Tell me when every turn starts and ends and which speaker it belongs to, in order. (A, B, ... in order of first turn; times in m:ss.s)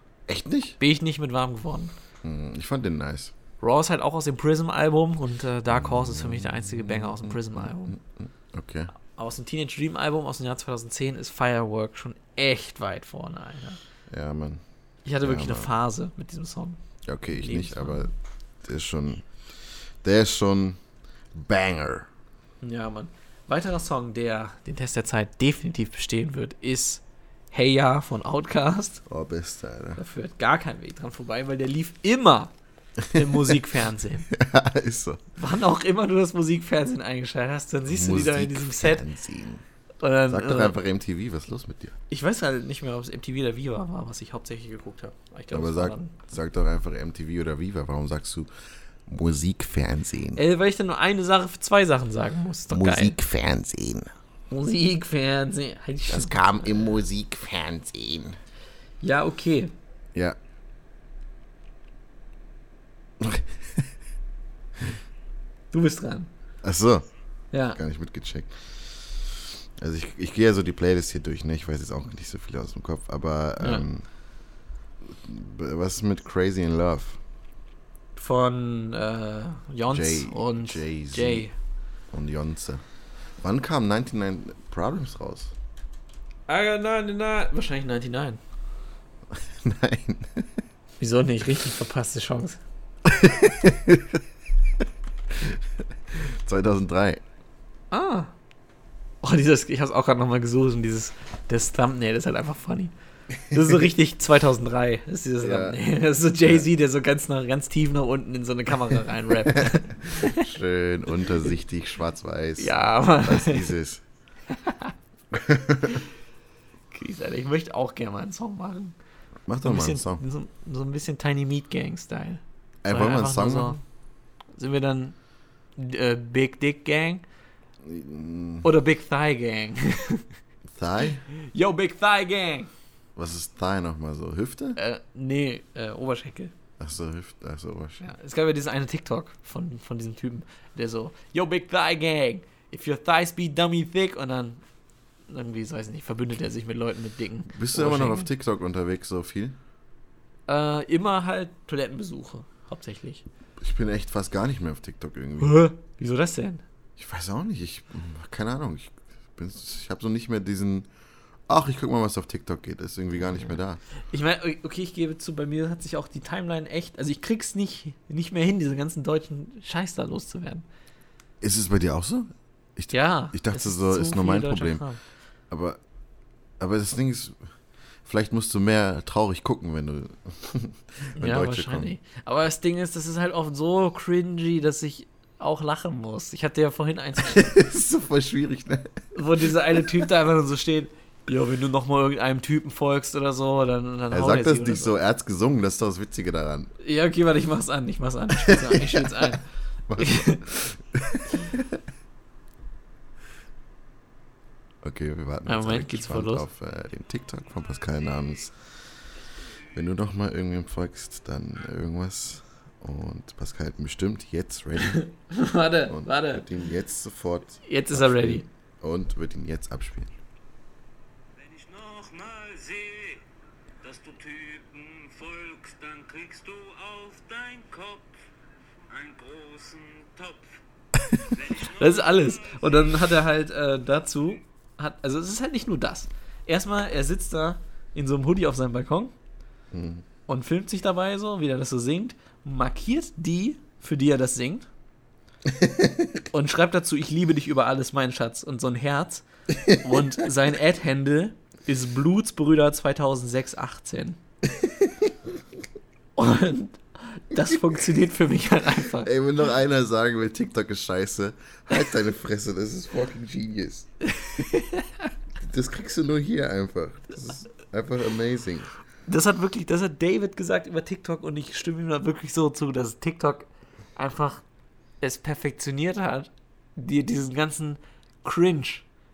0:00.3-0:00.8 A
0:00.8-0:01.9 B
0:02.2-0:03.3 A
0:03.6-0:08.0 B
0:05.7-0:08.9 A
0:09.2-0:13.8 B
0:14.1-0:14.6 A
0:15.0-0:16.8 B
0:15.2-0:15.7 A
0:17.0-0:18.1 A
0:17.3-0:18.1 B
0:18.6-0:19.4 A
0:20.0-0:20.8 A
0:21.3-0:22.1 A
0:22.6-0:29.0 B
0:29.1-0:30.0 A
0:30.0-0:32.5 B
0:33.0-0:33.6 A
0:33.1-0:34.3 B
0:34.3-0:35.3 A
0:35.4-0:39.0 B
0:37.9-0:39.6 A
0:40.0-0:40.8 B
0:40.3-0:42.0 A
0:42.1-0:46.3 B
0:45.5-0:48.5 A
0:49.1-0:50.4 A
0:50.4-0:53.2 B
0:52.7-0:54.1 A
0:54.5-0:56.9 B
0:56.1-0:58.4 A
0:59.0-0:59.7 B
1:03.2-1:03.9 A
1:05.7-1:06.3 B
1:06.6-1:07.1 A
1:07.5-1:07.8 B
1:07.7-1:14.1 A
1:15.0-1:17.2 A
1:18.2-1:21.5 B
1:19.9-1:21.5 A
1:22.1-1:22.8 A
1:23.4-1:25.5 A
1:26.5-1:28.4 B
1:29.3-1:30.5 A
1:31.0-1:32.6 B
1:33.1-1:34.2 A
1:36.1-1:37.2 A
1:37.9-1:38.3 B
1:39.2-1:42.9 B
1:43.5-1:50.5 B
1:45.4-1:45.8 A
1:49.5-1:54.0 A
1:52.6-1:53.7 B
1:54.5-1:54.9 B
1:55.3-1:56.0 A
1:56.9-1:59.0 B
1:59.5-2:00.2 A
1:59.6-2:03.8 B
2:02.8-2:03.8 A
2:04.6-2:05.2 B
2:05.8-2:07.2 B
2:07.8-2:08.7 A
2:08.6-2:10.3 B
2:10.7-2:11.2 A
2:11.3-2:12.7 B
2:13.2-2:14.8 A
2:14.8-2:16.5 B
2:16.8-2:18.1 A
2:18.0-2:24.6 B
2:25.3-2:28.3 B
2:27.5-2:29.6 A
2:30.5-2:33.2 B
2:33.6-2:35.6 A
2:35.4-2:36.6 B
2:37.0-2:40.9 A
2:41.5-2:43.8 A
2:44.1-2:50.7 B
2:51.4-2:54.8 A
2:52.9-2:55.0 B
2:55.5-2:55.8 A
2:56.6-2:57.4 A
2:58.0-3:01.9 A
3:01.2-3:07.6 B
3:07.2-3:09.9 A
3:09.1-3:14.9 B
3:14.1-3:16.7 A
3:16.8-3:19.4 B
3:18.4-3:21.8 A
3:20.0-3:20.4 B
3:24.8-3:28.6 A
3:25.5-3:26.4 B
3:29.7-3:35.0 A
3:34.8-3:36.4 B
3:35.9-3:40.1 A
3:37.6-3:38.5 B
3:41.4-3:43.2 C
3:43.8-3:48.2 C
3:48.9-3:50.6 C
3:51.2-3:53.1 C
3:51.6-3:59.1 B
3:59.7-4:00.0 A
4:00.3-4:04.7 B
4:05.6-4:06.1 A
4:06.3-4:14.2 B
4:09.5-4:09.9 A
4:16.2-4:19.1 B
4:18.9-4:23.9 A
4:24.0-4:25.1 B
4:25.4-4:28.7 A
4:29.1-4:34.4 B
4:35.0-4:38.8 B